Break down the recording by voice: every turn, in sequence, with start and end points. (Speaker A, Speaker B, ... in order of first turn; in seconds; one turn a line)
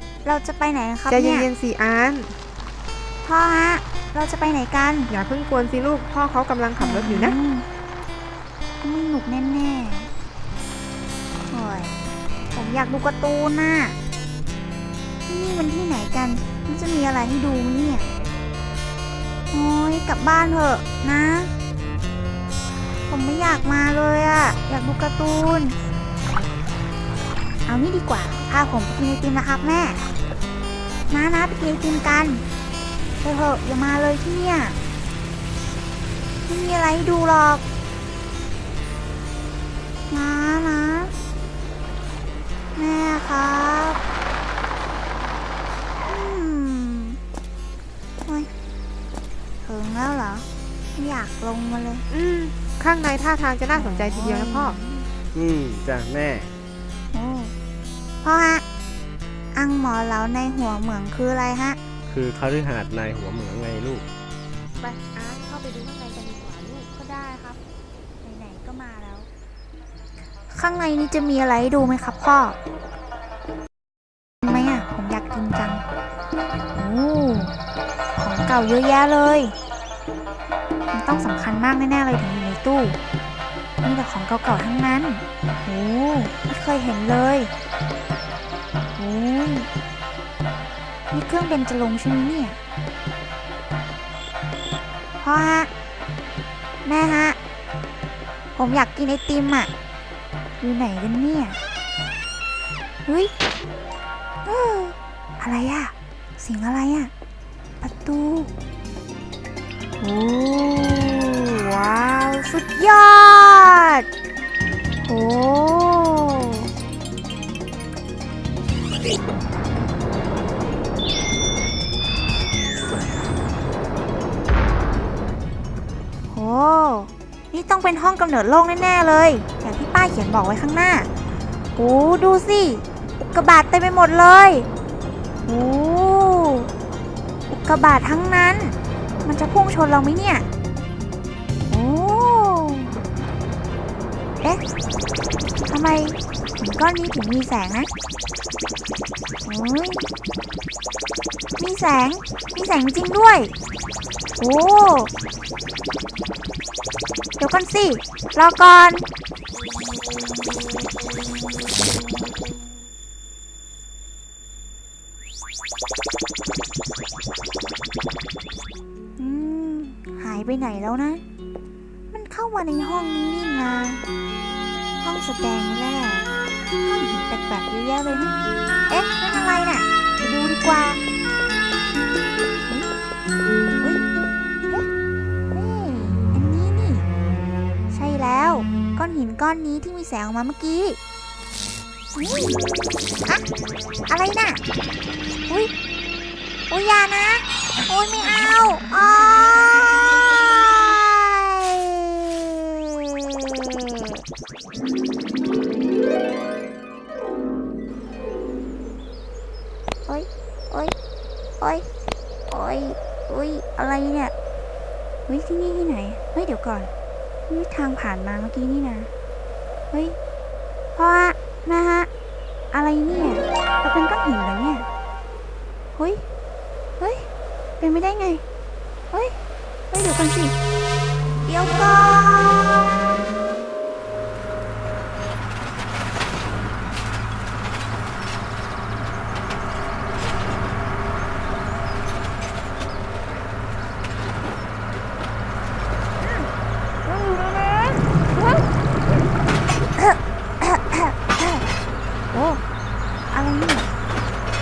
Speaker A: 0.2-1.5
Speaker B: 1.1-2.3
Speaker A: 3.2-5.1
Speaker B: 5.1-7.3
Speaker A: 6.8-7.7
Speaker A: 8.8-10.1
Speaker A: 11.5-11.9
Speaker A: 12.5-13.9
Speaker A: 15.3-18.1
Speaker A: 19.5-21.5
Speaker A: 23.1-25.8
Speaker A: 27.6-30.0
Speaker A: 31.1-32.4
Speaker A: 33.2-34.8
Speaker A: 36.5-37.6
Speaker A: 40.1-41.1
Speaker A: 42.7-44.0
Speaker A: 46.0-47.2
Speaker A: 49.6-52.0
Speaker B: 52.1-54.8
Speaker A: 53.7-55.1
Speaker C: 55.3-56.5
Speaker A: 57.1-57.5
Speaker A: 58.2-58.6
Speaker A: 59.5-61.8
Speaker C: 62.1-64.0
Speaker B: 64.8-66.9
Speaker A: 66.9-67.6
Speaker A: 68.2-69.3
Speaker A: 70.5-72.6
Speaker A: 74.4-75.8
Speaker A: 76.8-77.5
Speaker A: 78.1-79.5
Speaker A: 80.9-83.0
Speaker A: 83.8-87.5
Speaker A: 89.0-89.7
Speaker A: 91.1-92.6
Speaker A: 95.2-95.7
Speaker A: 96.8-97.4
Speaker A: 98.5-99.7
Speaker A: 100.6-101.6
Speaker A: 103.0-103.3
Speaker A: 104.5-107.1
Speaker A: 107.8-108.5
Speaker A: 110.0-114.0
Speaker A: 115.0-116.7
Speaker A: 126.3-131.1
Speaker A: 131.8-134.7
Speaker A: 135.4-136.7
Speaker A: 137.5-140.4
Speaker A: 141.7-142.9
Speaker A: 145.7-147.9
Speaker A: 149.4-150.1
Speaker A: 151.6-153.5
Speaker A: 154.4-155.1
Speaker A: 157.4-159.0
Speaker A: 169.2-171.2
Speaker A: 172.1-174.0
Speaker A: 175.0-176.3
Speaker A: 176.8-178.3
Speaker A: 178.9-181.0
Speaker A: 185.5-187.1
Speaker A: 187.9-191.0
Speaker A: 192.1-192.6
Speaker A: 194.1-194.6
Speaker A: 196.7-200.1
Speaker A: 200.7-204.2
Speaker A: 210.1-210.9
Speaker A: 211.6-211.9
Speaker A: 212.5-214.3
Speaker A: 215.3-216.9
Speaker A: 217.5-219.1
Speaker A: 219.9-220.2
Speaker A: 220.9-222.1
Speaker A: 222.7-224.8
Speaker A: 225.9-226.2
Speaker A: 227.0-227.2
Speaker A: 227.8-228.4
Speaker A: 229.1-229.3
Speaker A: 229.9-230.5
Speaker A: 231.4-232.8
Speaker A: 246.2-246.5
Speaker A: 247.0-248.2
Speaker A: 250.0-251.6
Speaker A: 252.3-252.6
Speaker A: 253.3-253.9